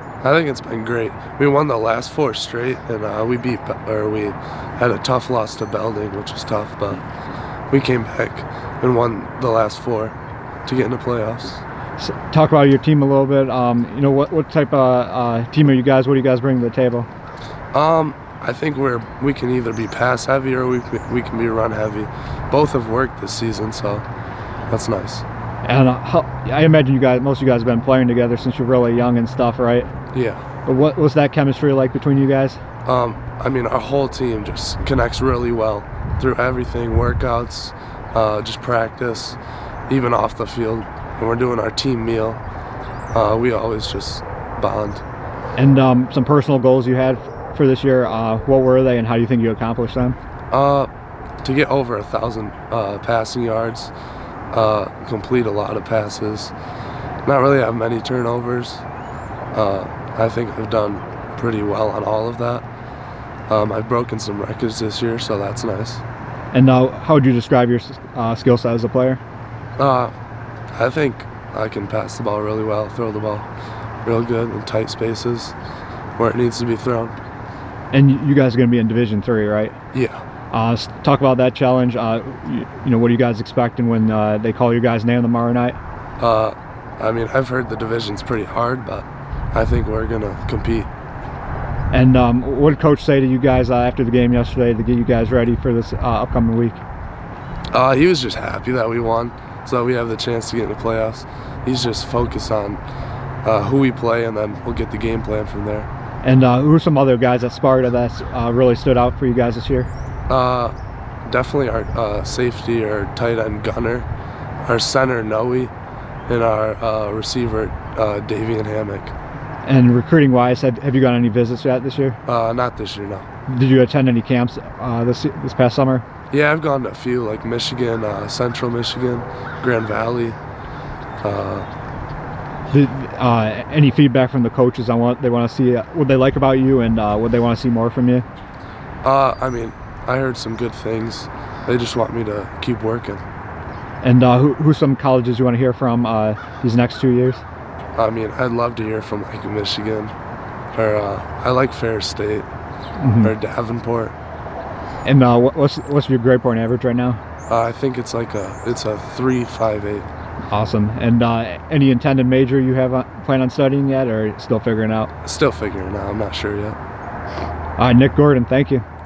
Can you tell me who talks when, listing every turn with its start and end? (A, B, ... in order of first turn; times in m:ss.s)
0:00.2-0:07.0 A
0:07.7-0:10.2 A
0:10.6-0:11.6 A
0:12.0-0:17.1 B
0:17.7-0:24.0 A
0:24.7-0:25.2 A
0:25.6-0:29.9 B
0:30.1-0:30.4 A
0:30.6-0:32.6 B
0:32.9-0:39.4 A
0:39.9-0:42.4 A
0:43.1-0:45.0 A
0:45.6-0:50.2 B
0:50.5-0:50.9 A
0:51.4-0:53.9 A
0:54.5-0:56.5 A
0:57.3-0:58.8 A
0:59.5-1:02.6 A
1:03.5-1:06.0 A
1:06.5-1:09.2 B
1:09.8-1:10.1 A
1:10.7-1:13.5 A
1:14.0-1:15.6 A
1:16.2-1:17.2 A
1:17.9-1:19.8 B
1:19.9-1:20.2 A
1:20.5-1:25.8 B
1:26.2-1:30.9 A
1:31.9-1:36.8 B
1:37.7-1:42.8 A
1:43.4-1:45.9 A
1:46.2-1:49.9 B
1:50.3-1:50.7 A
1:51.2-1:54.1 A
1:54.6-1:55.7 A
1:56.3-1:59.1 A
1:59.6-2:02.2 B
2:02.2-2:03.3 A
2:03.5-2:06.0 B
2:06.3-2:10.4 A
2:11.2-2:11.7 A
2:12.7-2:18.2 B
2:19.0-2:23.2 A
2:24.0-2:27.4 B
2:28.0-2:30.2 A
2:30.7-2:32.5 A
2:33.0-2:33.3 B
2:33.2-2:34.2 A
2:35.0-2:37.2 B
2:37.5-2:40.1 A
2:40.5-2:45.1 B
2:45.2-2:46.8 A
2:47.8-2:48.8 B